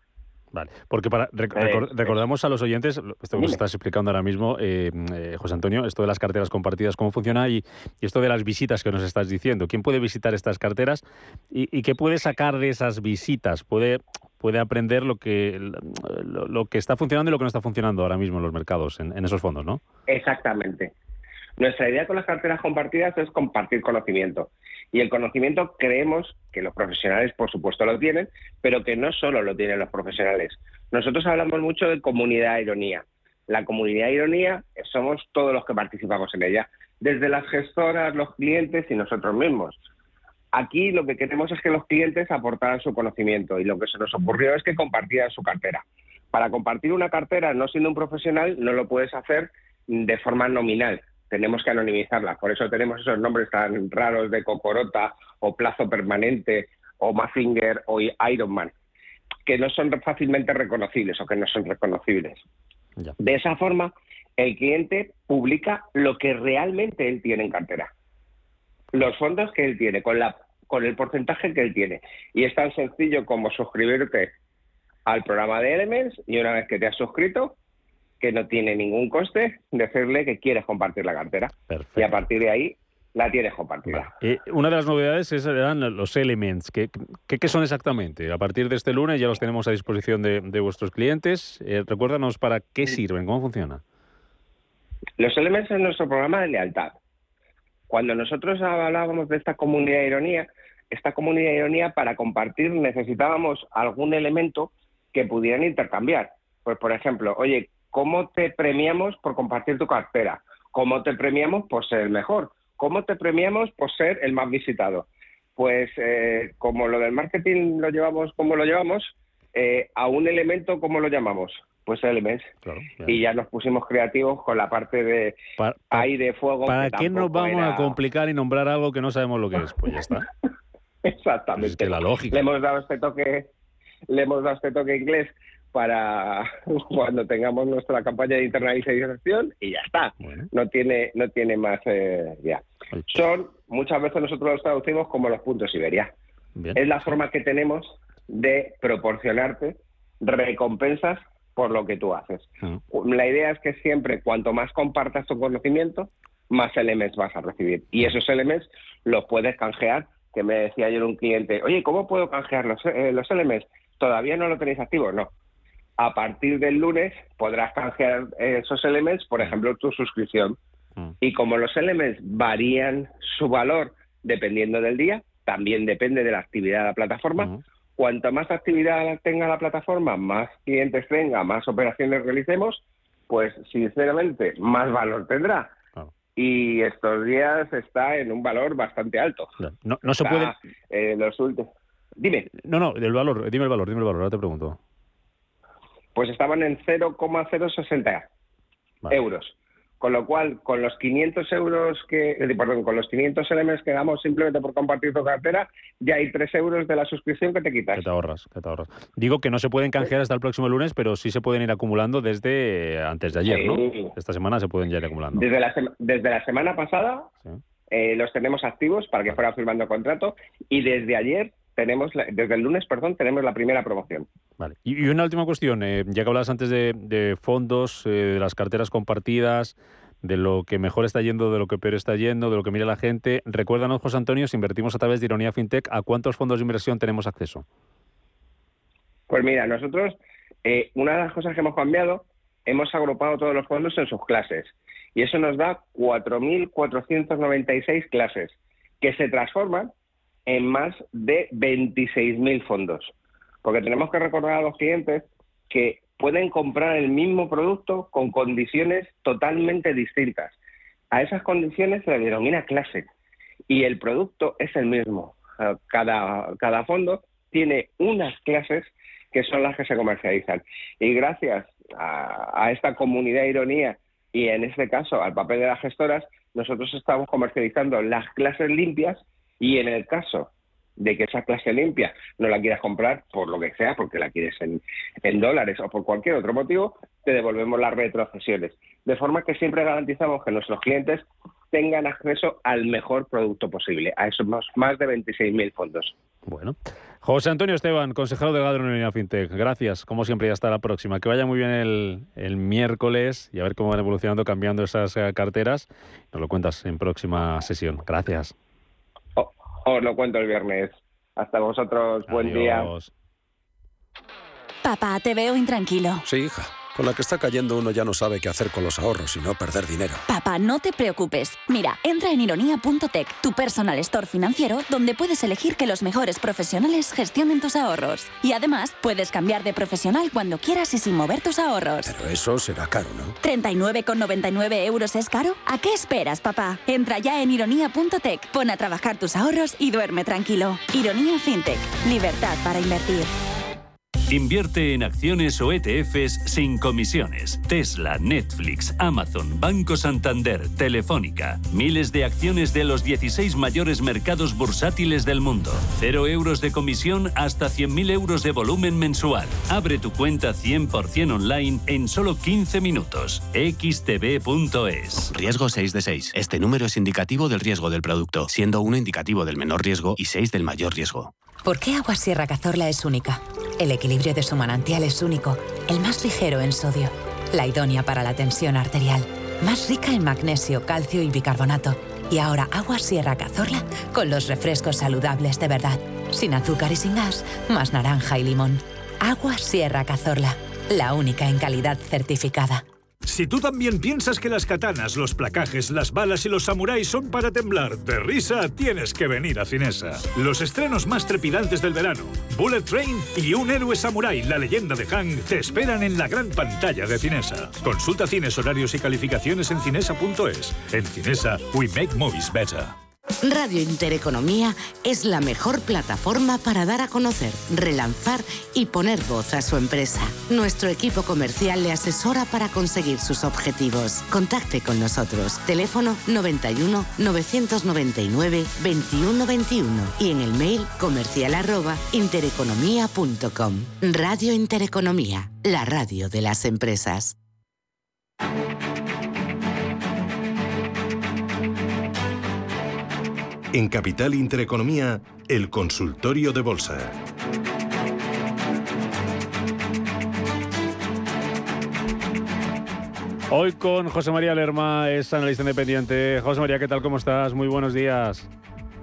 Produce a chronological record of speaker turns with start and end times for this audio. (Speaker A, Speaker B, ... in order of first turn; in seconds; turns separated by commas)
Speaker A: 0.5-19.8, Speaker B: 1.5-2.1, Speaker B: 20.1-20.9, Speaker B: 21.6-39.8, Speaker B: 40.5-58.7, Speaker B: 59.5-62.4, Speaker B: 63.2-67.9, Speaker B: 68.9-74.3, Speaker B: 75.0-77.5, Speaker B: 78.2-84.1, Speaker A: 81.7-82.2, Speaker A: 83.9-93.8, Speaker B: 95.2-96.9, Speaker B: 97.9-115.0, Speaker B: 115.6-122.5, Speaker A: 122.6-123.2, Speaker B: 123.0-125.4, Speaker A: 125.6-126.1, Speaker B: 125.9-128.0, Speaker A: 126.6-130.3, Speaker B: 131.0-133.5, Speaker A: 131.6-132.4, Speaker B: 134.1-146.1, Speaker A: 140.2-140.5, Speaker A: 146.6-147.2, Speaker B: 146.7-165.3, Speaker B: 166.0-170.6, Speaker B: 171.2-185.7, Speaker B: 186.3-189.5, Speaker A: 189.6-190.5, Speaker B: 190.2-192.5, Speaker A: 192.6-194.8, Speaker B: 196.2-198.3, Speaker B: 199.1-208.1, Speaker A: 207.9-215.4, Speaker B: 213.4-214.1, Speaker B: 215.3-217.3, Speaker B: 217.9-224.2, Speaker A: 224.6-237.6, Speaker B: 239.3-249.9, Speaker B: 250.5-260.5, Speaker B: 261.1-263.1, Speaker B: 263.7-296.1, Speaker A: 296.4-308.5, Speaker B: 309.4-312.9, Speaker A: 312.2-313.1, Speaker C: 314.8-316.2, Speaker D: 316.2-320.2, Speaker C: 320.3-332.1, Speaker D: 332.0-333.4, Speaker C: 333.4-343.3, Speaker E: 344.3-365.3, Speaker F: 365.3-371.3, Speaker G: 371.6-392.8, Speaker H: 393.2-412.9, Speaker I: 413.4-437.4, Speaker J: 443.7-447.1, Speaker A: 453.5-458.5